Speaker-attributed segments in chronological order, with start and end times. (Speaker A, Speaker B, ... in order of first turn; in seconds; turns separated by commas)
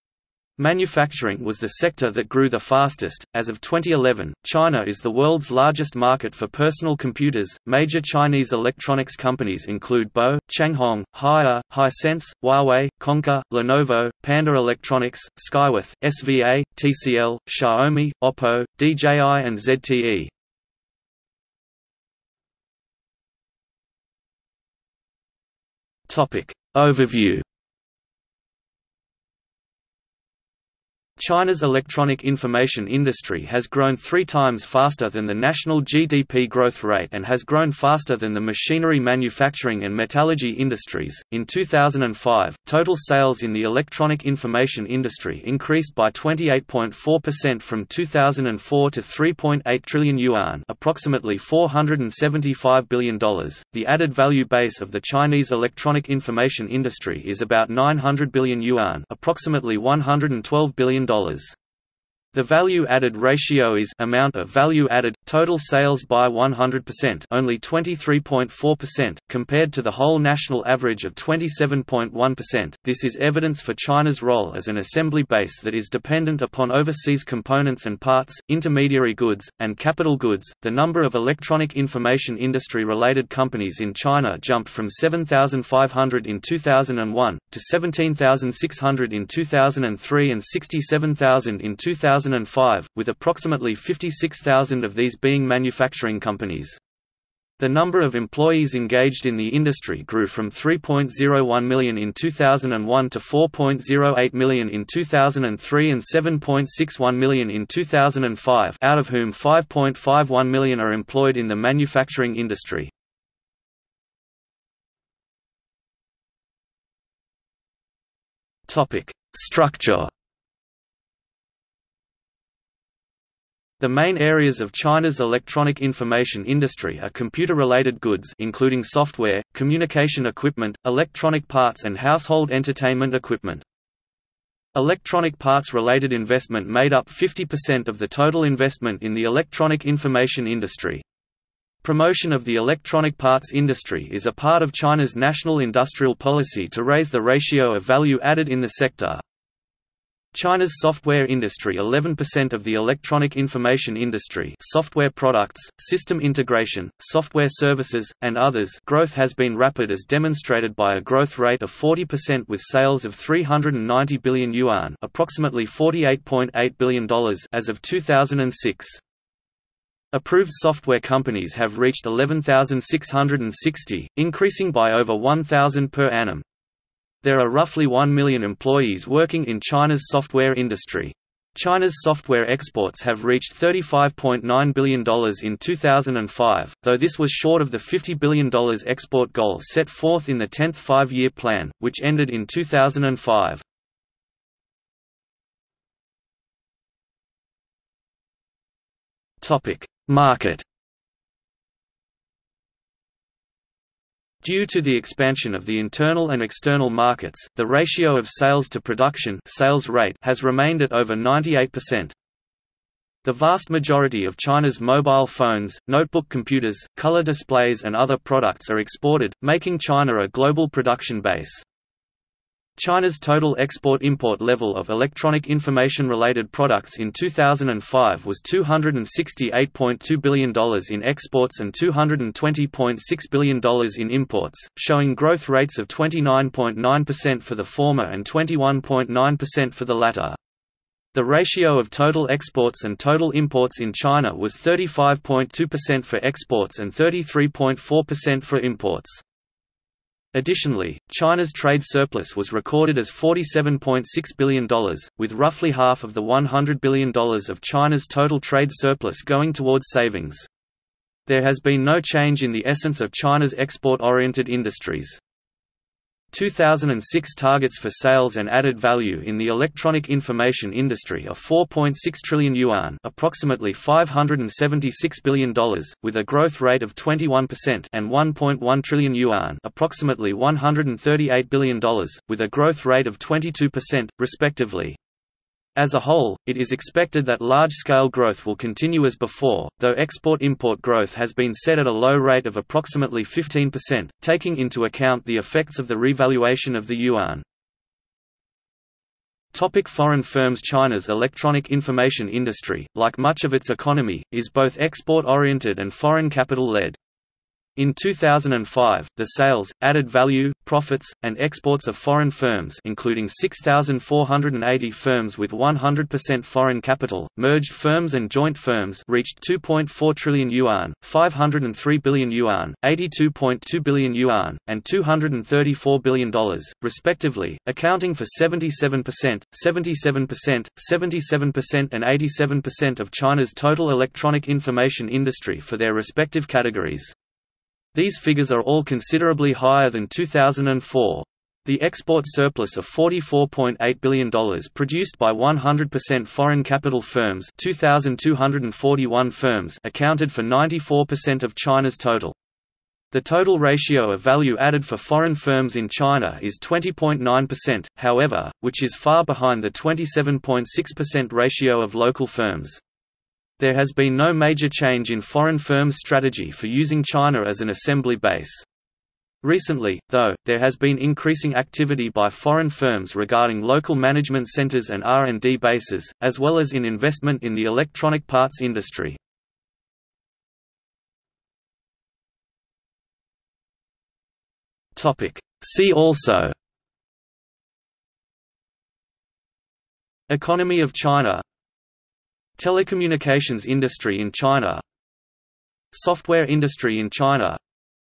Speaker A: 0.6-20.3, Speaker A: 26.1-27.4, Speaker A: 31.2-61.5, Speaker A: 62.3-96.8, Speaker A: 97.6-112.9, Speaker A: 118.7-120.1, Speaker A: 123.8-133.6, Speaker A: 134.7-141.0, Speaker A: 141.8-149.2, Speaker A: 150.3-169.0, Speaker A: 170.1-176.4, Speaker A: 177.2-193.6, Speaker A: 199.4-200.6, Speaker A: 204.4-212.1, Speaker A: 213.2-221.6, Speaker A: 222.8-240.4, Speaker A: 241.1-249.2, Speaker A: 250.3-260.5, Speaker A: 261.3-265.2, Speaker A: 266.3-285.0, Speaker A: 285.8-297.4, Speaker A: 299.5-307.0, Speaker A: 307.8-337.1, Speaker A: 337.9-352.4, Speaker A: 353.1-362.8, Speaker A: 363.6-368.6, Speaker A: 369.4-379.2, Speaker A: 384.9-386.5, Speaker A: 390.3-391.4, Speaker A: 392.6-394.8, Speaker A: 395.9-397.6